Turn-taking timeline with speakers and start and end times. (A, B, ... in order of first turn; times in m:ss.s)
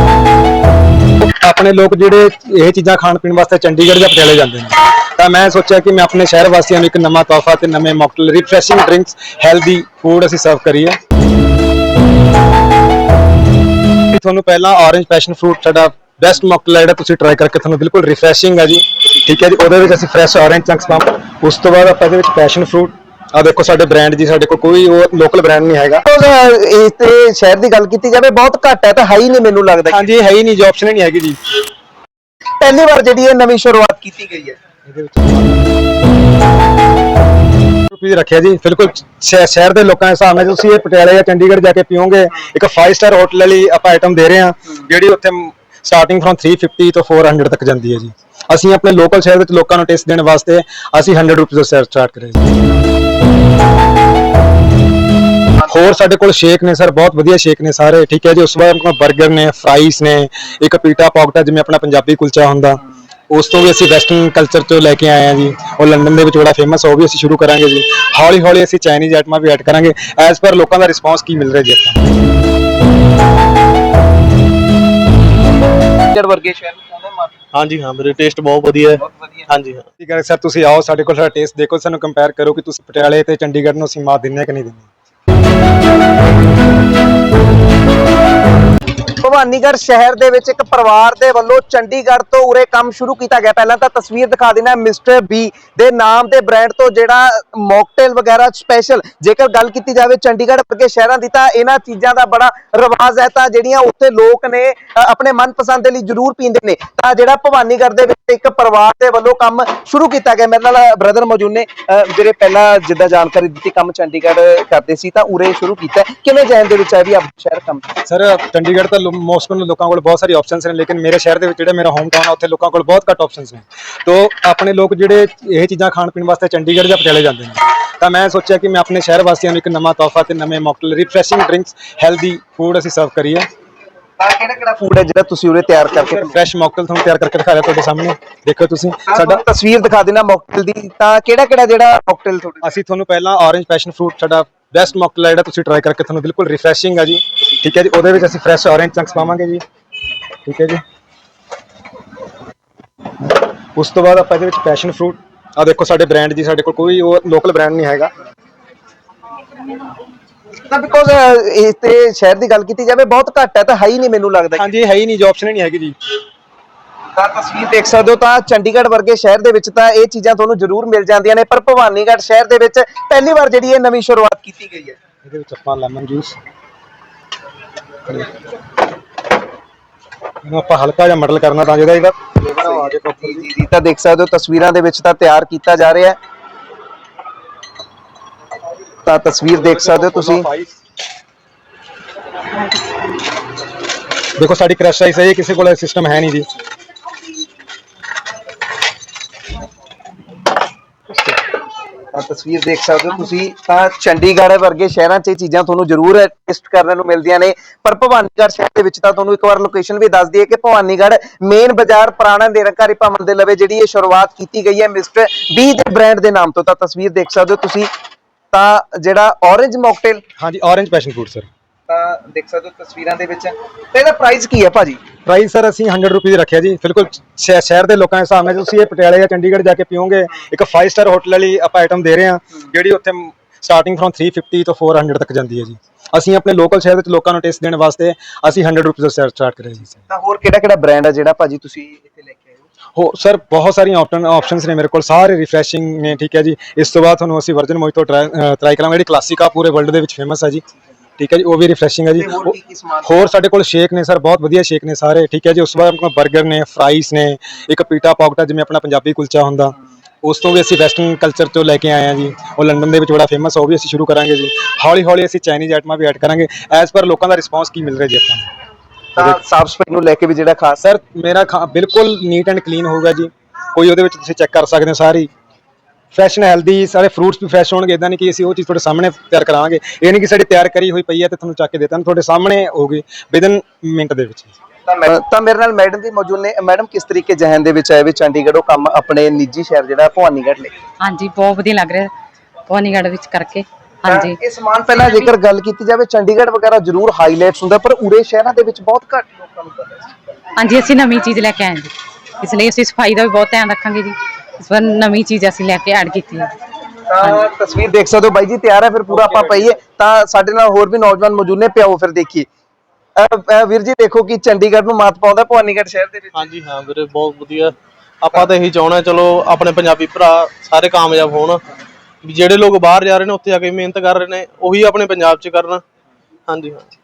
0:01.2-0:11.0 A
0:14.1-0:26.0 A
0:26.0-0:30.1 B
0:29.9-0:31.4 A
0:32.6-0:34.6 B
0:34.9-0:35.7 A
0:37.9-0:52.4 A
0:55.7-1:12.1 A
1:16.1-1:17.3 B
1:17.5-1:19.8 C
1:19.0-1:19.5 B
1:20.0-1:24.9 A
1:29.2-1:57.8 B
1:58.1-2:13.5 A
2:14.2-2:16.4 B
2:15.9-2:19.4 A
2:19.1-2:22.7 B
2:22.6-2:29.6 A
2:30.5-2:30.8 A
2:33.8-2:38.1 A
2:40.7-2:44.7 B
2:44.6-2:46.0 A
2:47.2-2:55.0 B
2:55.2-2:56.4 A
3:00.4-3:03.5 A
3:02.6-3:06.2 B
3:09.0-3:10.5 B
3:09.6-3:10.8 A
3:14.4-3:16.5 A
3:22.1-3:37.9 B
3:38.5-3:40.2 B
3:40.4-3:41.5 A
3:41.9-3:45.0 B
3:45.3-4:00.0 A
4:00.1-4:02.6 B
4:03.0-4:10.6 A
4:11.2-4:28.5 A
4:12.2-4:13.1 B
4:29.2-4:30.8 B
4:30.8-4:35.3 A
4:36.1-4:44.5 A
4:44.9-4:50.7 B
4:51.0-4:52.1 D
4:52.7-4:54.4 D
4:54.1-5:00.1 B
4:54.9-4:55.3 D
5:00.6-5:06.5 D
5:07.1-5:12.5 B
5:09.1-5:09.7 A
5:13.2-5:16.5 B
5:16.3-5:21.6 C
5:22.2-5:25.8 C
5:26.5-5:26.9 C